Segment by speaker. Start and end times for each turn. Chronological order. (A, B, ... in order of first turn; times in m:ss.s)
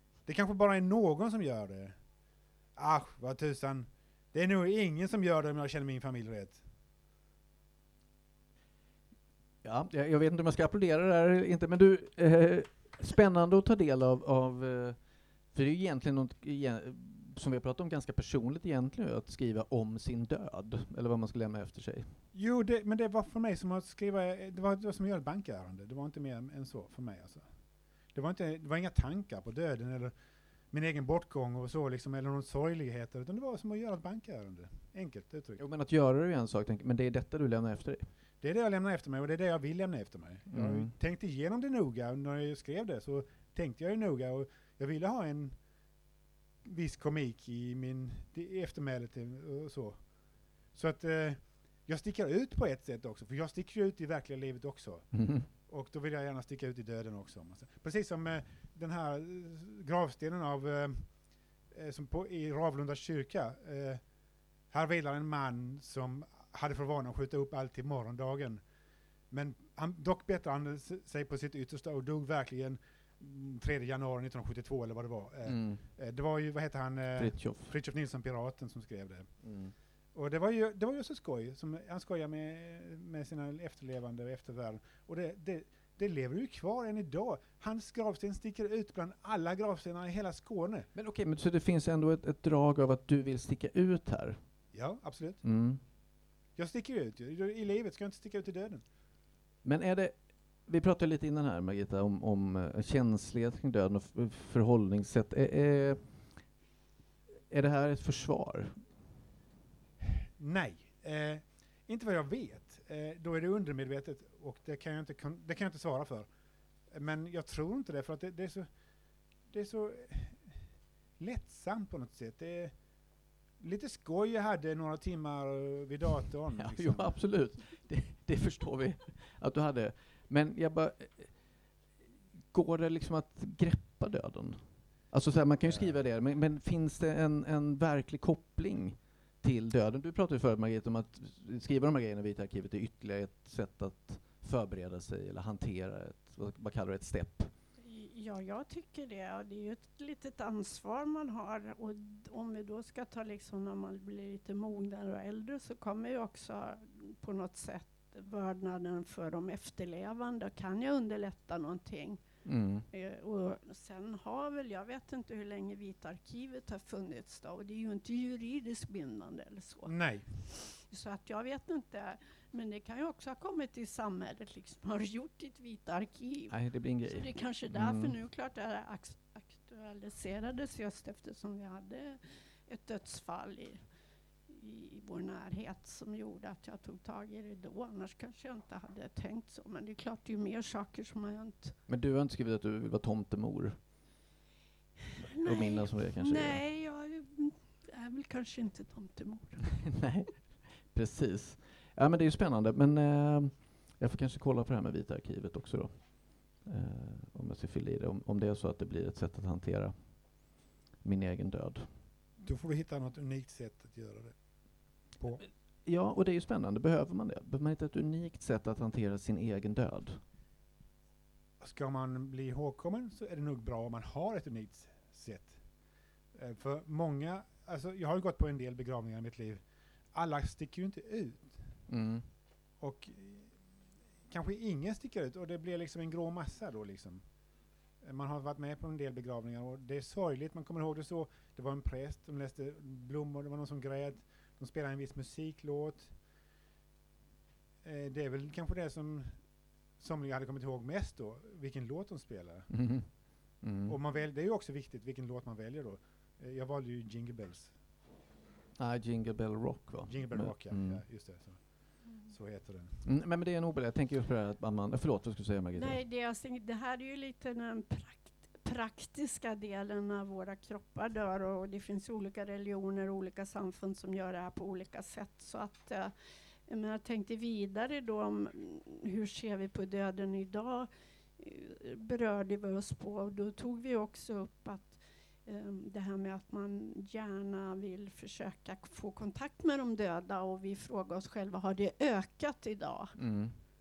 0:00.3-0:02.0 A
0:02.8-0:06.6 A
0:09.6-0:15.0 B
0:15.5-0:22.1 B
0:22.3-0:27.5 A
0:28.1-0:30.1 A
0:30.7-0:35.6 A
0:35.6-0:38.1 B
0:38.4-0:45.6 A
0:40.5-0:40.9 B
0:46.6-0:50.0 A
0:50.7-1:01.1 A
0:55.1-0:55.5 B
1:01.7-1:04.0 A
1:04.7-1:08.6 A
1:09.3-1:19.3 A
1:15.4-1:15.8 B
1:17.2-1:17.7 B
1:19.4-1:19.7 B
1:20.1-1:30.9 A
1:31.0-1:34.4 B
1:34.7-1:35.4 A
1:35.4-1:35.8 B
1:36.6-1:38.8 A
1:39.6-1:46.4 B
1:47.5-1:48.8 B
1:50.4-1:56.3 A
1:56.9-1:58.7 A
1:59.5-2:00.6 A
2:01.2-2:02.8 A
2:03.6-2:07.1 A
2:06.6-2:11.4 B
2:12.5-2:27.5 B
2:15.6-2:16.0 A
2:27.8-2:42.2 C
2:42.4-2:42.9 B
2:42.9-3:03.8 C
2:49.9-2:50.3 A
2:56.5-2:58.2 B
3:04.5-3:11.8 C
3:11.9-3:13.8 B
3:15.4-3:16.6 B
3:15.4-3:19.8 C
3:19.9-3:31.9 B
3:32.4-3:34.4 A
3:35.2-3:35.4 A
3:35.8-3:40.2 B
3:41.6-3:45.6 A
3:46.4-3:49.6 A
3:50.1-3:51.7 A
3:51.9-3:52.2 B
3:52.8-3:53.5 A
3:54.3-3:57.2 A
3:58.0-4:06.2 A
4:07.8-4:09.4 A
4:10.0-4:12.7 A
4:12.7-4:13.1 B
4:13.6-4:14.0 B
4:13.9-4:17.8 A
4:18.8-4:21.0 B
4:20.0-4:23.0 A
4:23.0-4:26.0 B
4:25.7-4:36.1 C
4:36.7-4:53.1 C
4:53.2-4:53.6 B